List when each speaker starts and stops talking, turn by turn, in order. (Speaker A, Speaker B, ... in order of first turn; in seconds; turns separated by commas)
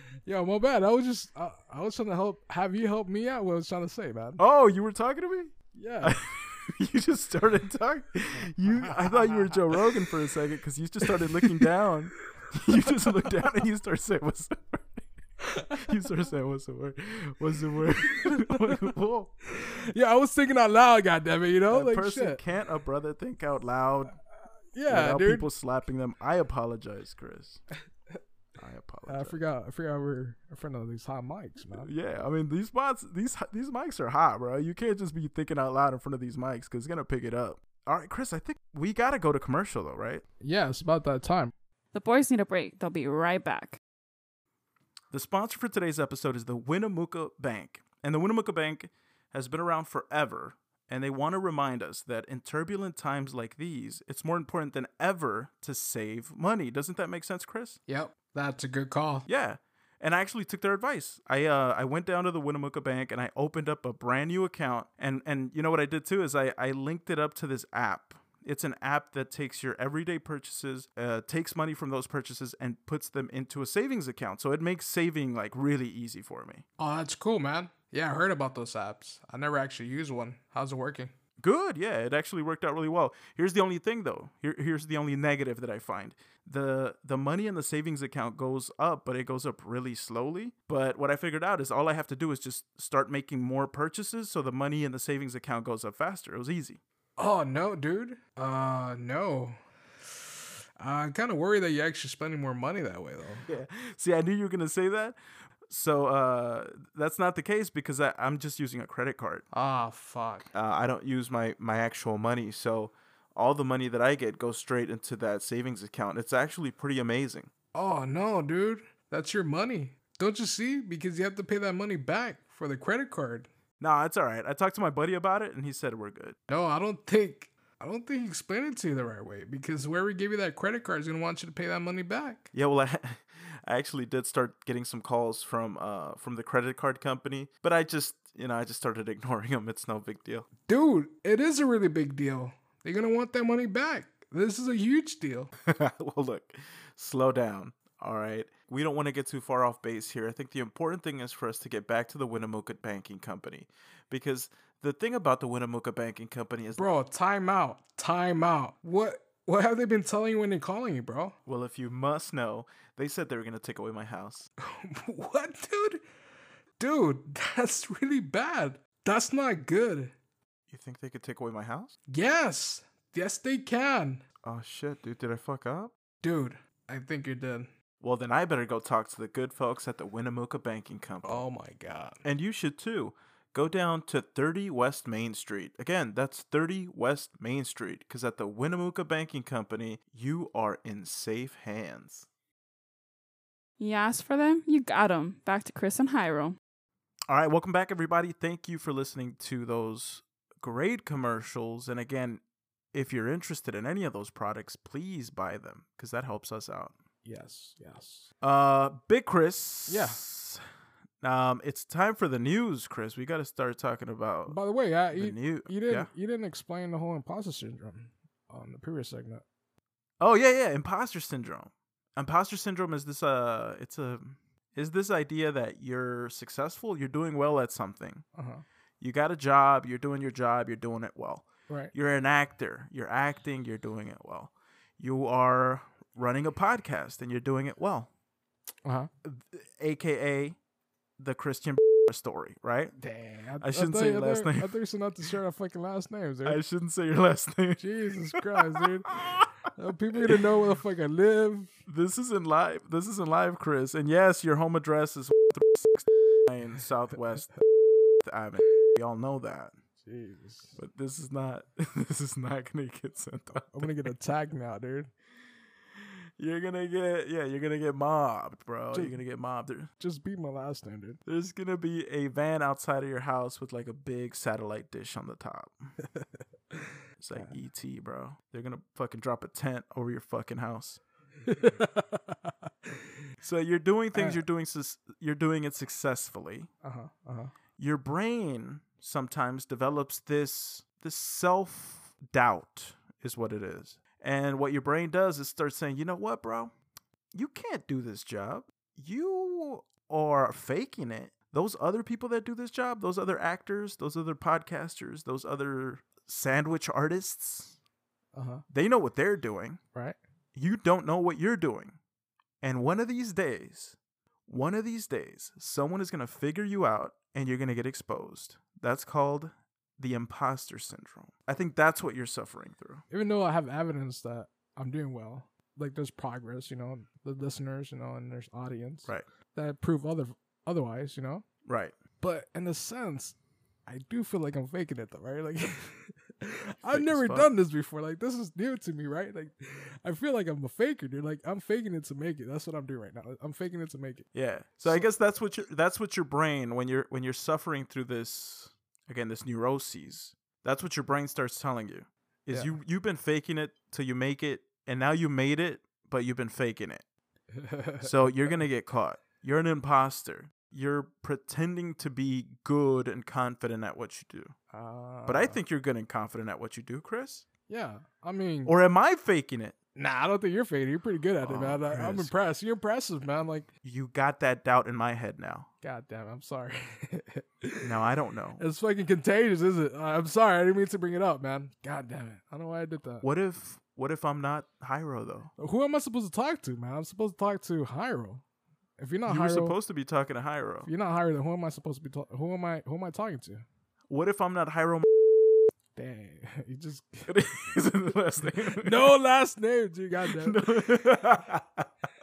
Speaker A: 0.2-4.4, Speaker B: 4.4-15.1, Speaker A: 5.7-6.2, Speaker A: 9.1-9.4, Speaker A: 11.2-11.7, Speaker A: 15.5-15.9, Speaker B: 15.7-19.4, Speaker A: 18.2-18.8, Speaker A: 19.5-22.4, Speaker B: 21.7-24.2, Speaker A: 24.7-25.5, Speaker B: 24.9-27.6, Speaker B: 28.6-29.4, Speaker A: 29.1-31.9, Speaker B: 31.7-40.2, Speaker A: 40.4-41.5, Speaker C: 41.9-43.8, Speaker B: 45.1-57.8, Speaker A: 57.9-59.3, Speaker B: 59.3-76.6, Speaker A: 76.8-81.1, Speaker B: 81.4-96.8, Speaker A: 97.2-99.6, Speaker A: 100.8-103.5, Speaker B: 103.4-105.2, Speaker B: 105.7-109.4, Speaker A: 109.5-110.5, Speaker B: 110.5-117.5, Speaker A: 117.7-123.5, Speaker B: 123.8-126.4, Speaker A: 126.5-132.5, Speaker B: 132.5-140.5, Speaker A: 140.7-145.5, Speaker B: 145.6-156.9, Speaker A: 156.8-161.3, Speaker B: 161.4-164.5, Speaker A: 164.6-166.0, Speaker A: 166.8-170.1, Speaker B: 170.7-171.9, Speaker A: 172.1-174.2, Speaker B: 174.4-175.9, Speaker A: 176.2-177.7, Speaker B: 178.0-181.4, Speaker A: 181.2-182.2, Speaker B: 182.2-192.3, Speaker C: 193.8-196.6, Speaker B: 197.3-202.4, Speaker B: 202.9-206.9, Speaker A: 207.2-208.3, Speaker B: 208.4-210.6, Speaker A: 209.9-210.2, Speaker B: 211.2-214.6, Speaker A: 214.5-219.4, Speaker B: 215.1-216.1, Speaker B: 220.2-228.2, Speaker A: 228.3-228.6, Speaker B: 229.0-238.1, Speaker A: 238.8-239.1, Speaker B: 239.2-240.6, Speaker B: 241.2-242.9, Speaker A: 243.0-246.6, Speaker B: 243.6-244.7, Speaker B: 246.4-249.5, Speaker A: 247.8-251.8, Speaker B: 250.2-250.4, Speaker B: 251.9-257.5, Speaker B: 258.2-259.7, Speaker A: 260.0-260.8, Speaker B: 260.8-264.1, Speaker A: 263.7-265.1, Speaker B: 266.4-269.9, Speaker A: 268.9-269.2, Speaker A: 270.0-271.2, Speaker B: 271.2-275.9, Speaker B: 277.2-281.0, Speaker A: 281.4-282.5, Speaker B: 283.4-286.7, Speaker A: 284.1-284.4, Speaker A: 286.8-287.5, Speaker B: 287.8-296.7, Speaker B: 297.3-307.8, Speaker A: 308.3-308.6, Speaker B: 308.7-309.8, Speaker B: 310.5-312.0, Speaker B: 312.6-313.9, Speaker B: 314.5-323.0, Speaker A: 323.1-331.4, Speaker B: 331.6-331.9, Speaker A: 332.2-344.3, Speaker B: 336.8-337.5, Speaker B: 344.3-357.0, Speaker A: 357.5-358.1, Speaker B: 358.0-364.5, Speaker A: 364.7-365.6, Speaker B: 365.2-367.4, Speaker A: 367.7-368.7, Speaker B: 368.6-369.8, Speaker A: 369.9-373.7, Speaker B: 371.4-372.3, Speaker B: 373.8-375.7, Speaker A: 375.8-377.9, Speaker B: 377.8-378.6, Speaker A: 378.6-383.3, Speaker B: 383.2-385.5, Speaker A: 385.6-388.4, Speaker A: 389.0-389.8, Speaker B: 389.2-390.9, Speaker A: 390.8-393.6, Speaker B: 394.1-395.1, Speaker A: 395.9-397.3, Speaker B: 397.3-399.1, Speaker A: 398.8-400.6, Speaker B: 400.2-401.9